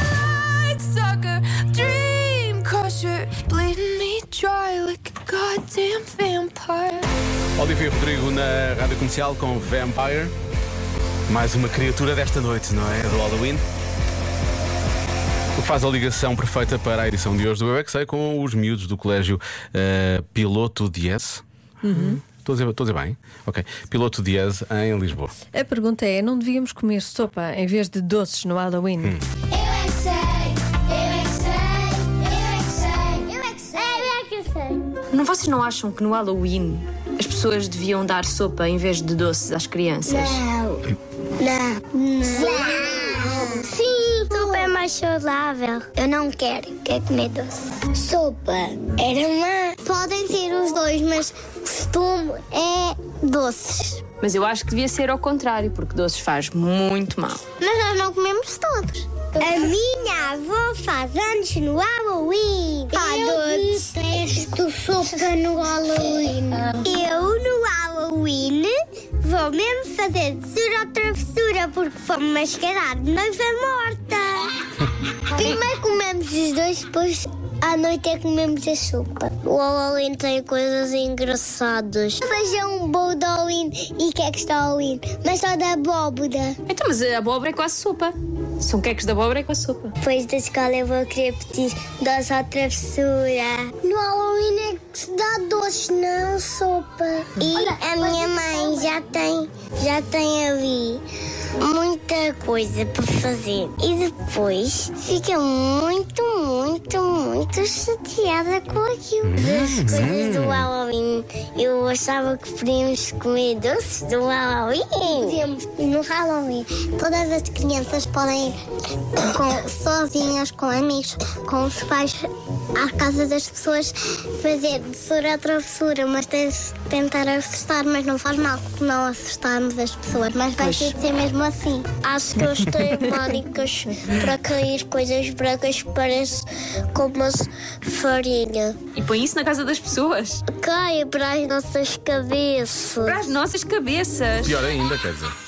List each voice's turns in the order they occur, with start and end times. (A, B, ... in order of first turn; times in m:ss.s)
0:00.3-0:07.1 A
0:07.6-0:10.3 B
0:11.3-0:13.6 B
0:15.6-0:25.3 B
0:21.8-0:22.2 C
0:25.5-0:29.2 C
0:29.6-0:34.8 D
0:35.1-0:40.4 E
0:40.2-0:40.8 D
0:41.4-0:54.0 D
0:54.2-0:57.4 E
0:57.6-1:14.5 D
1:03.0-1:04.0 A
1:15.3-1:26.6 D
1:26.7-1:29.9 E
1:30.0-1:41.0 D
1:41.6-1:58.6 D
1:49.2-1:50.7 B
1:59.2-2:18.8 D
2:10.6-2:11.0 E
2:12.8-2:13.2 C
2:18.9-2:20.4 E
2:20.5-2:23.3 D
2:23.0-2:24.6 E
2:24.4-2:25.3 B